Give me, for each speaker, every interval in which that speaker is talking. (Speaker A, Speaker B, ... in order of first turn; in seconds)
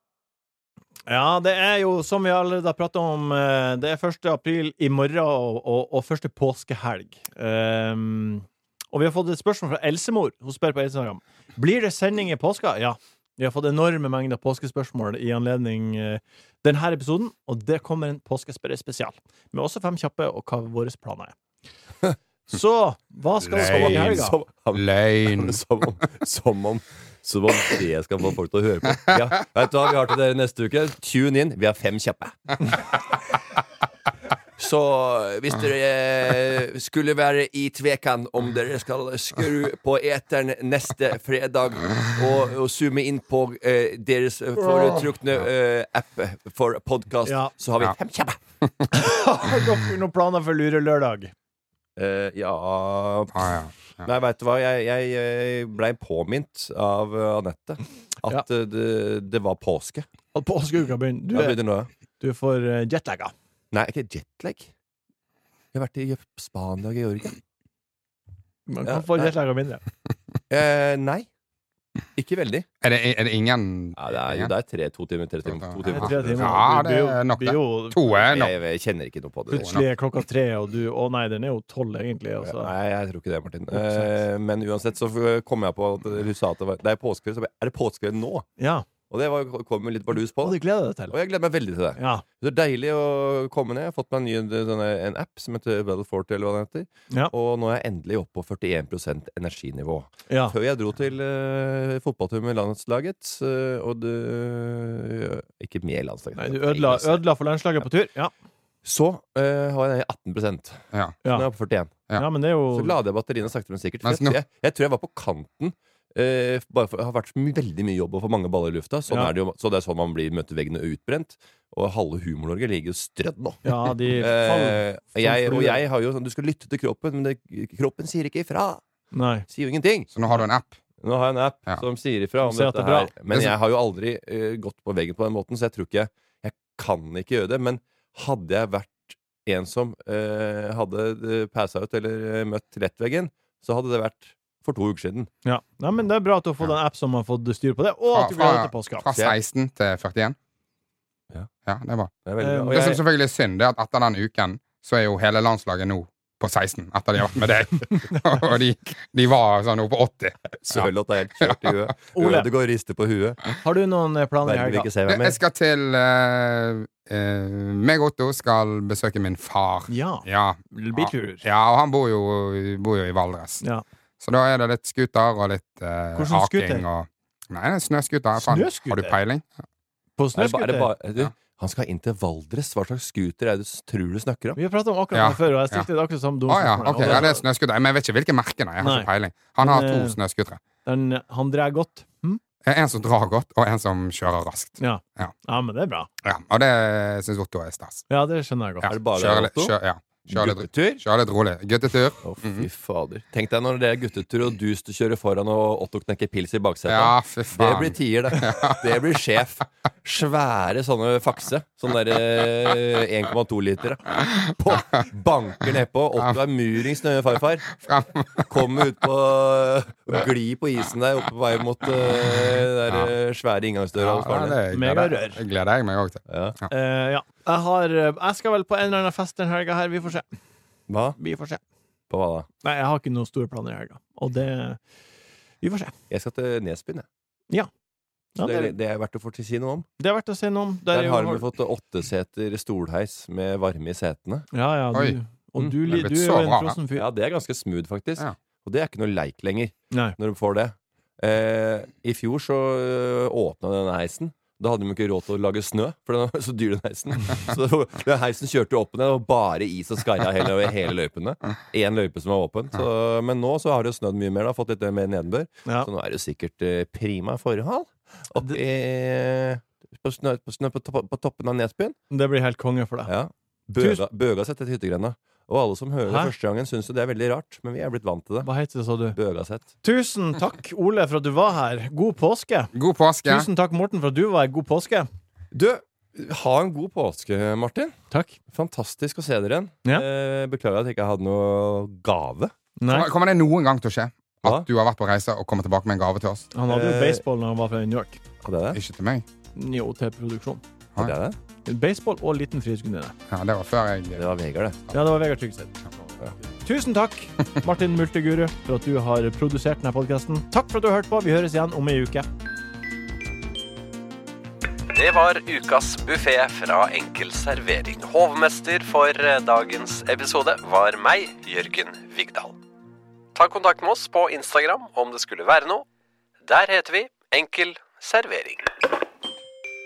Speaker A: 1.1-21.3, 22.5-24.4, 47.2-47.5, 48.9-51.3, 60.3-61.6, 62.2-63.3, 68.7-69.8, 75.9-78.2, 79.5-82.7, 83.7-84.1, 88.6-88.9, 90.4-91.1, 92.0-92.2, 100.3-100.5, 106.3-108.3, 112.2-112.9, 123.6-125.8, 129.1-129.4, 132.4-133.5, 145.4-149.1, 152.4-152.7, 162.1-162.5, 163.6-164.9, 169.9-171.4, 176.1-176.8, 178.4-179.2, 180.2-180.9, 184.6-187.4, 188.8-190.2, 190.8-192.4, 194.8-196.1, 198.1-198.9, 224.7-225.4, 226.7-230.3, 231.2-231.6, 232.6-234.8, 235.6-235.9, 238.3-238.8, 240.0-241.4, 244.5-247.1, 249.9-250.2, 272.1-273.1, 273.8-274.0, 276.1-276.3, 278.4-279.2, 279.8-282.7, 283.2-285.1, 288.1-288.4, 292.8-293.1, 296.5-298.2, 299.5-300.6, 301.6-303.1, 304.9-305.7, 306.6-312.2
Speaker B: 23.4-25.6, 48.6-48.9, 53.3-54.1, 72.8-74.5, 75.5-78.5, 79.5-79.8, 114.0-114.4, 130.1-130.8, 148.1-150.3, 151.7-152.1, 152.6-161.8, 165.1-173.6, 174.2-179.5, 185.1-185.9, 186.5-190.6, 192.6-195.3, 196.2-198.0, 198.8-202.7, 206.9-208.9, 217.7-218.5, 223.9-226.6, 244.9-245.2, 245.8-246.8, 282.7-283.5, 292.9-296.5, 298.7-299.2, 303.3-304.3
Speaker C: 23.6-32.8, 34.6-48.4, 52.0-53.5, 54.0-60.1, 61.3-61.9, 63.7-64.7, 65.7-67.4, 68.8-69.3, 70.5-71.3, 72.2-72.7, 74.0-76.6, 78.3-79.7, 82.4-88.5, 89.1-90.6, 91.1-107.2, 108.8-111.9, 112.7-128.8, 129.5-130.1, 131.0-145.3, 152.2-153.0, 160.6-163.4, 164.4-165.4, 180.3-184.6, 198.9-201.0, 202.2-217.7, 218.5-224.6, 226.3-226.6, 230.9-231.2, 232.1-232.5, 236.1-237.1, 238.4-239.9, 240.9-244.5, 246.9-271.9, 273.1-278.5, 279.1-279.6, 285.5-287.9, 288.5-292.5, 296.7-297.2, 298.4-298.8, 301.0-301.4, 304.2-304.8
Speaker D: 314.9-322.6, 323.3-325.8, 326.4-328.7